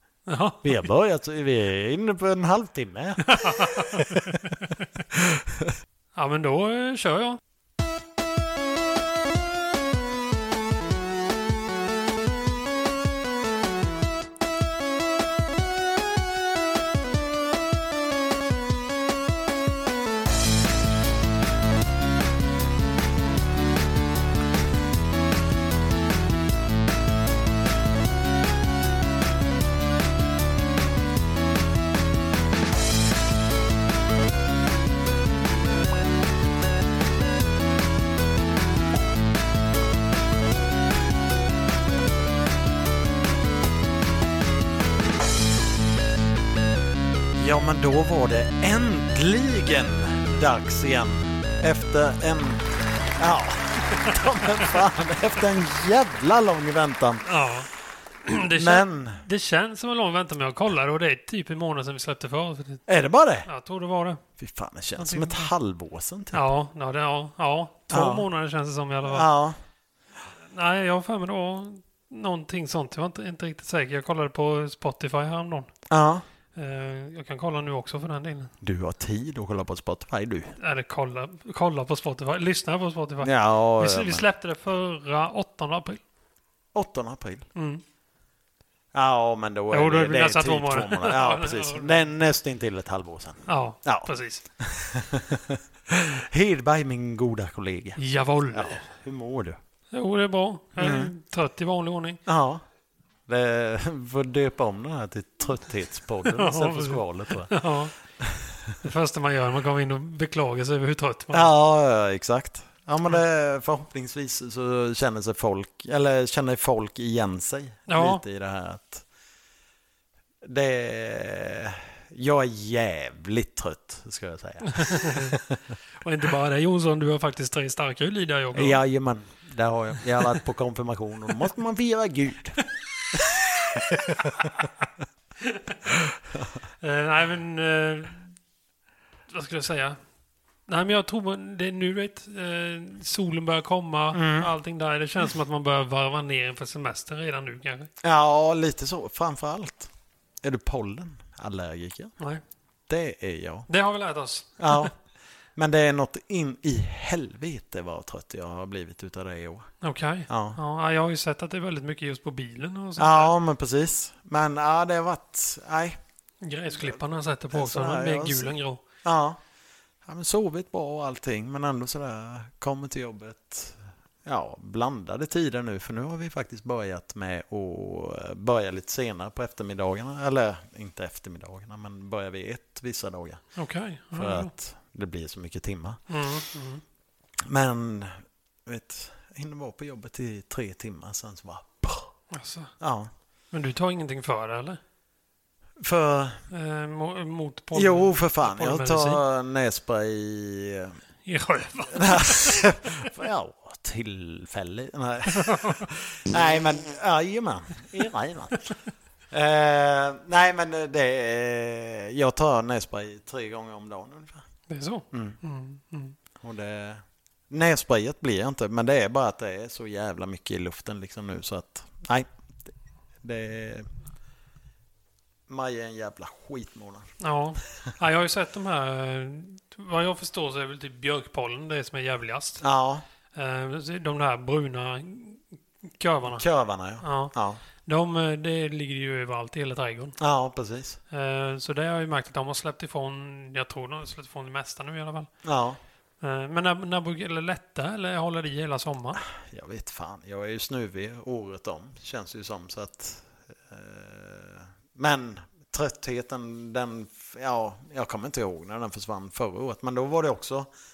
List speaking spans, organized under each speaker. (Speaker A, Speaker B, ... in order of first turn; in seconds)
Speaker A: 0.3-0.9, 3.2-4.8, 6.1-7.4, 53.9-54.6, 57.2-57.7, 58.2-62.9, 63.4-64.2, 65.0-65.5, 66.3-69.3, 70.3-75.7, 76.5-78.5, 80.6-86.0, 87.5-87.8, 89.7-92.1, 93.5-94.4, 98.0-98.8, 99.9-102.2, 106.3-108.0, 108.8-111.5, 117.9-118.2, 124.7-125.4, 126.0-128.8, 135.4-135.8, 136.8-138.3, 139.3-140.0, 140.7-147.9, 153.7-154.9, 159.8-163.3, 166.4-168.8, 183.5-184.5, 186.1-186.8, 192.3-192.7, 193.5-194.8, 196.5-199.2, 201.2-202.7, 205.3-205.9, 214.7-216.2, 227.2-232.6, 233.3-236.5, 237.0-240.2, 241.1-245.3, 246.2-249.2
Speaker B: 0.6-4.4, 5.1-5.7, 47.3-57.2, 58.5-59.2, 62.9-63.5, 64.4-66.4, 67.9-68.3, 69.0-69.6, 75.9-76.2, 78.6-80.5, 83.2-84.2, 86.7-87.5, 88.9-98.0, 98.5-99.6, 100.8-101.1, 102.2-102.6, 103.3-107.6, 108.2-108.7, 111.3-119.0, 120.4-125.7, 128.5-132.6, 133.1-134.6, 135.9-136.4, 144.1-144.5, 148.0-149.9, 150.4-152.1, 152.9-153.7, 154.6-154.9, 155.6-159.7, 160.3-160.6, 163.0-166.0, 167.5-169.4, 170.0-183.5, 184.1-186.0, 187.4-192.1, 192.8-193.1, 195.8-196.4, 197.7-201.0, 201.9-208.7, 209.3-214.4, 215.1-215.4, 216.4-222.3, 223.2-223.9, 225.5-227.1, 232.6-233.0, 236.3-237.6, 240.2-241.0, 245.4-245.8, 249.2-260.7